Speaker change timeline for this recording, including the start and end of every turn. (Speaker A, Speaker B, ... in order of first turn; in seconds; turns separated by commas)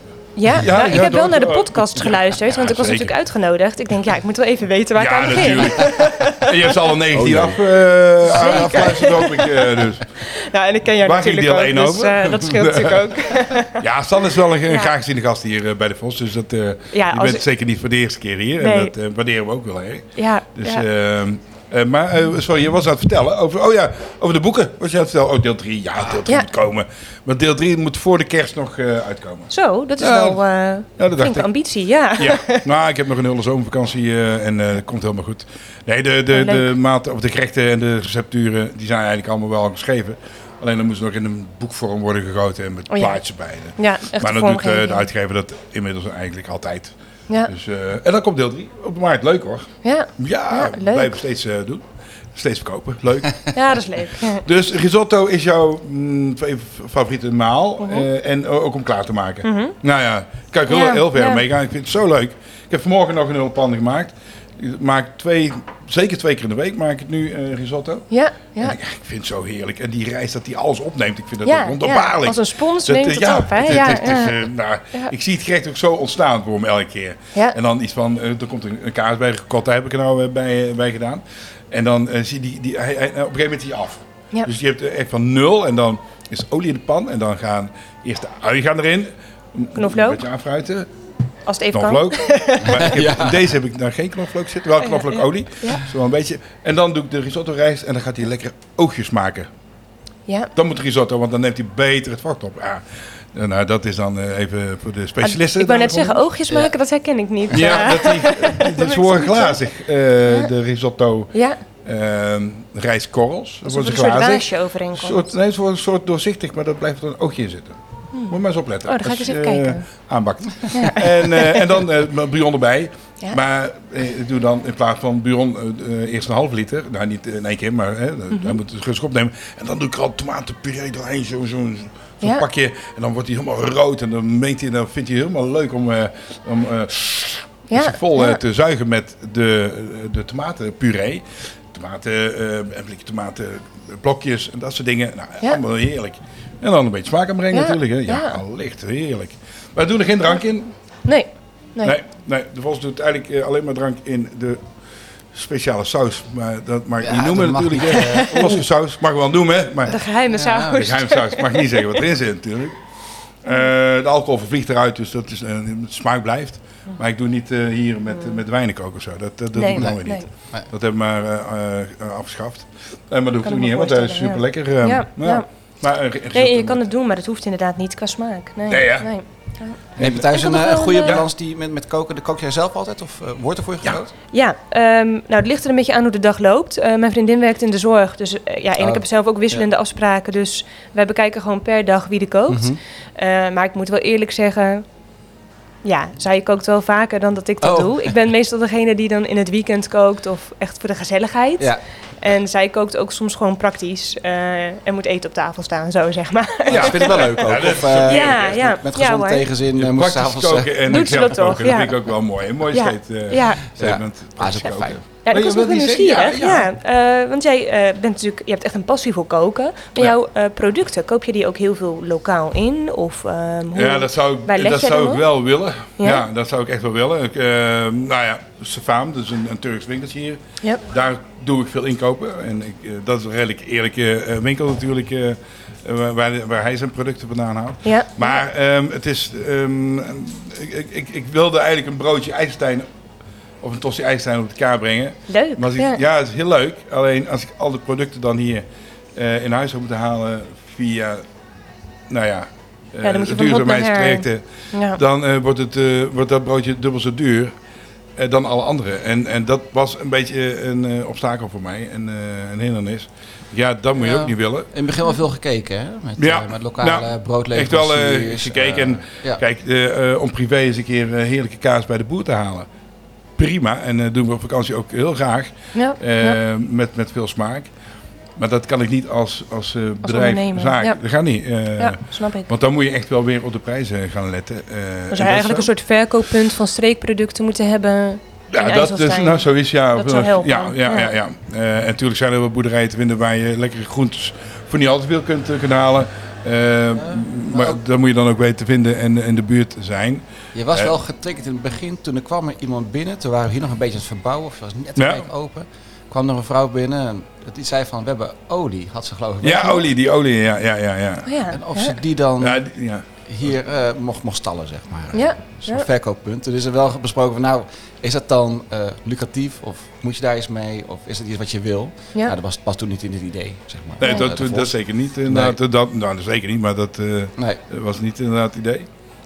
Speaker A: 0.4-6.7, Speaker B: 0.5-3.1, Speaker B: 5.0-10.0, Speaker C: 7.1-7.6, Speaker A: 8.3-13.8, Speaker C: 8.3-9.2, Speaker B: 11.0-30.4, Speaker A: 14.7-14.9, Speaker A: 16.9-17.4, Speaker A: 18.6-18.9, Speaker A: 20.1-20.9, Speaker A: 29.5-32.6, Speaker B: 31.0-31.5, Speaker B: 32.2-46.9, Speaker A: 36.3-36.7, Speaker A: 42.9-43.2, Speaker A: 43.8-45.0, Speaker B: 47.5-53.5, Speaker A: 49.8-51.2, Speaker A: 53.5-54.4, Speaker B: 54.4-68.0, Speaker A: 57.8-58.0, Speaker A: 59.4-59.8, Speaker A: 60.7-61.4, Speaker A: 68.1-68.8, Speaker B: 68.6-90.9, Speaker A: 71.4-74.4, Speaker A: 89.8-90.2, Speaker A: 91.5-93.0, Speaker B: 91.7-99.5, Speaker C: 92.6-93.5, Speaker A: 94.8-95.8, Speaker B: 100.5-106.2, Speaker A: 105.2-109.6, Speaker C: 107.5-108.0, Speaker B: 107.5-111.3, Speaker A: 111.3-111.6, Speaker B: 111.8-117.8, Speaker A: 113.6-115.3, Speaker B: 118.3-150.7, Speaker A: 118.9-119.9, Speaker A: 120.7-121.6, Speaker A: 128.3-128.6, Speaker A: 137.7-138.4, Speaker A: 147.5-148.4, Speaker A: 151.1-152.0, Speaker B: 151.8-154.6, Speaker B: 155.3-160.0, Speaker C: 157.0-158.6, Speaker A: 157.9-158.6, Speaker A: 159.9-162.0, Speaker C: 160.3-160.8, Speaker B: 160.7-162.8, Speaker B: 163.4-176.8, Speaker A: 169.5-170.3, Speaker A: 173.4-175.4, Speaker A: 176.3-181.2, Speaker B: 178.7-179.1, Speaker B: 180.0-180.3, Speaker C: 180.0-184.1, Speaker A: 184.3-194.8, Speaker C: 188.8-189.6, Speaker C: 192.5-192.8, Speaker A: 195.8-209.4, Speaker C: 197.6-198.1, Speaker B: 206.7-208.6, Speaker C: 206.7-211.2, Speaker B: 209.8-216.7, Speaker A: 210.9-212.0, Speaker A: 212.7-213.7, Speaker C: 213.8-215.0, Speaker A: 215.2-225.3, Speaker B: 223.7-242.9, Speaker A: 226.0-226.2, Speaker A: 237.8-238.4, Speaker B: 243.6-251.2, Speaker A: 245.3-246.0, Speaker B: 252.1-257.5, Speaker A: 253.0-255.0, Speaker B: 258.2-264.7, Speaker C: 264.0-269.4, Speaker B: 266.2-272.7, Speaker B: 273.4-277.7, Speaker A: 275.7-276.4, Speaker B: 278.4-285.7, Speaker A: 280.0-281.0, Speaker A: 281.8-282.5, Speaker A: 285.1-291.1, Speaker B: 288.5-300.9, Speaker C: 297.0-297.8, Speaker C: 300.5-309.8, Speaker B: 305.0-305.3, Speaker B: 309.4-311.3, Speaker A: 311.2-312.0, Speaker C: 311.5-312.6, Speaker B: 312.4-313.0, Speaker C: 313.3-325.6, Speaker A: 315.1-315.9, Speaker B: 324.0-328.9, Speaker A: 324.0-324.3